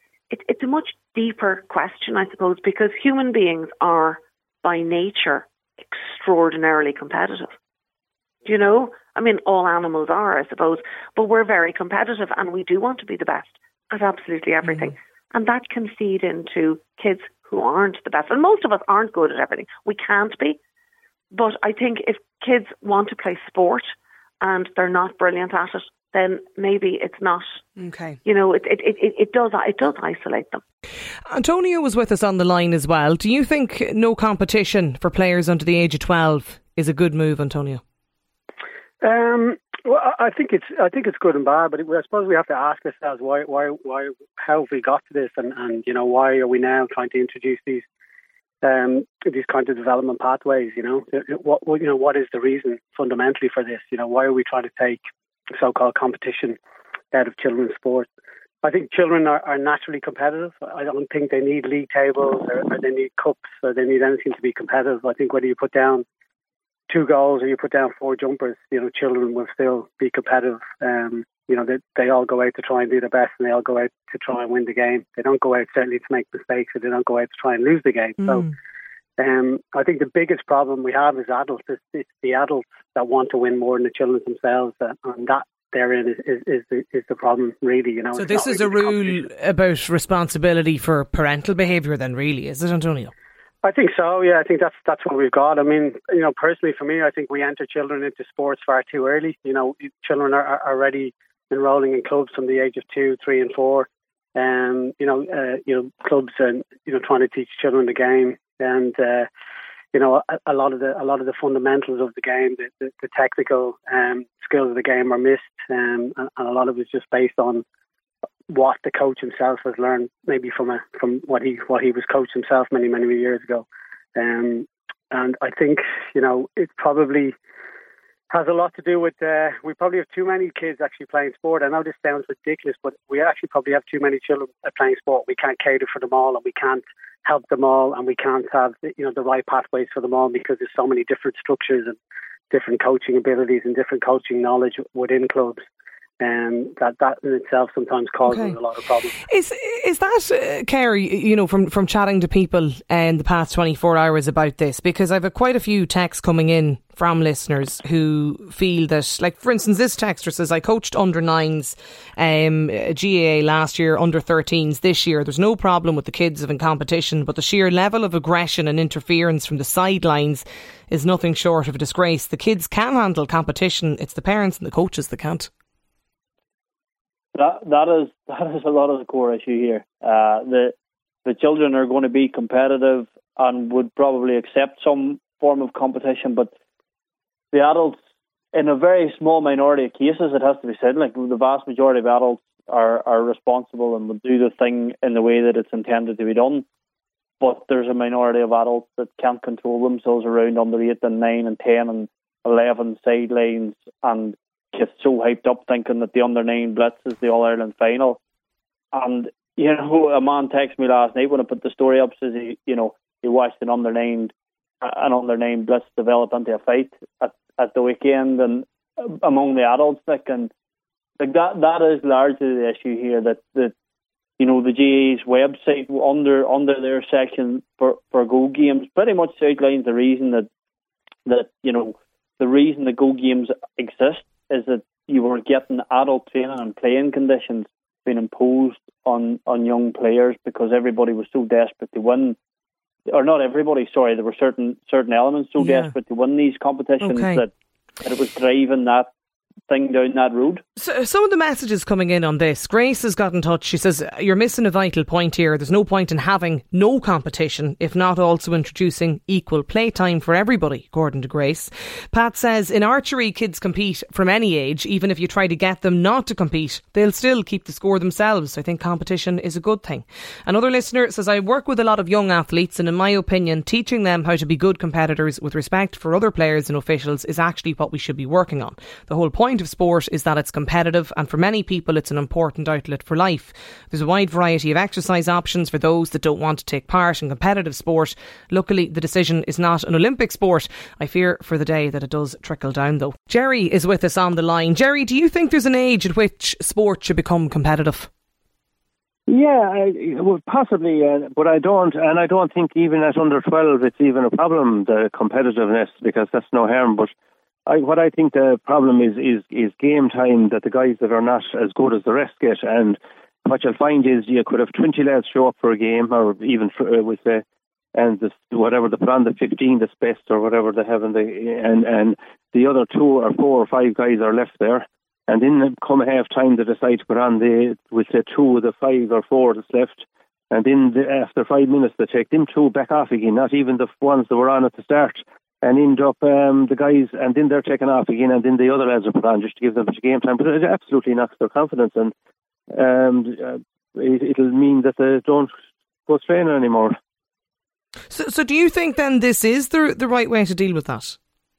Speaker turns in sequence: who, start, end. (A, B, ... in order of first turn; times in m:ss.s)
0:00.3-0:07.6 A
0:08.4-0:20.6 A
0:14.6-0:14.9 B
0:21.3-0:27.6 A
0:27.8-0:28.2 B
0:28.2-0:30.6 A
0:31.3-0:37.8 B
0:39.0-0:47.8 C
0:48.6-0:55.0 C
0:55.6-0:56.6 C
0:57.1-0:58.1 C
0:58.6-1:06.0 C
1:06.9-1:18.5 C
1:19.2-1:29.2 C
1:28.1-1:33.1 B
1:33.6-1:49.3 C
1:49.9-1:57.6 C
1:58.5-2:07.3 C
2:08.3-2:22.0 C
2:22.5-2:25.6 C
2:26.2-2:29.1 C
2:28.2-2:28.6 B
2:29.3-2:55.5 B
2:57.3-3:06.5 D
3:07.5-3:08.0 D
3:08.5-3:16.6 D
3:17.4-3:28.2 D
3:28.9-3:40.5 D
3:41.2-3:43.7 D
3:44.4-3:50.5 D
3:51.2-4:02.4 D
4:03.1-4:07.5 D
4:05.6-4:05.9 B
4:07.0-4:07.4 B
4:08.0-4:09.1 D
4:09.7-4:10.6 D
4:10.8-4:58.1 B
4:59.3-5:07.1 E
5:07.6-5:17.4 E
5:17.9-5:42.1 E
5:42.7-5:45.5 E
5:46.1-5:47.0 E
5:48.1-5:51.2 B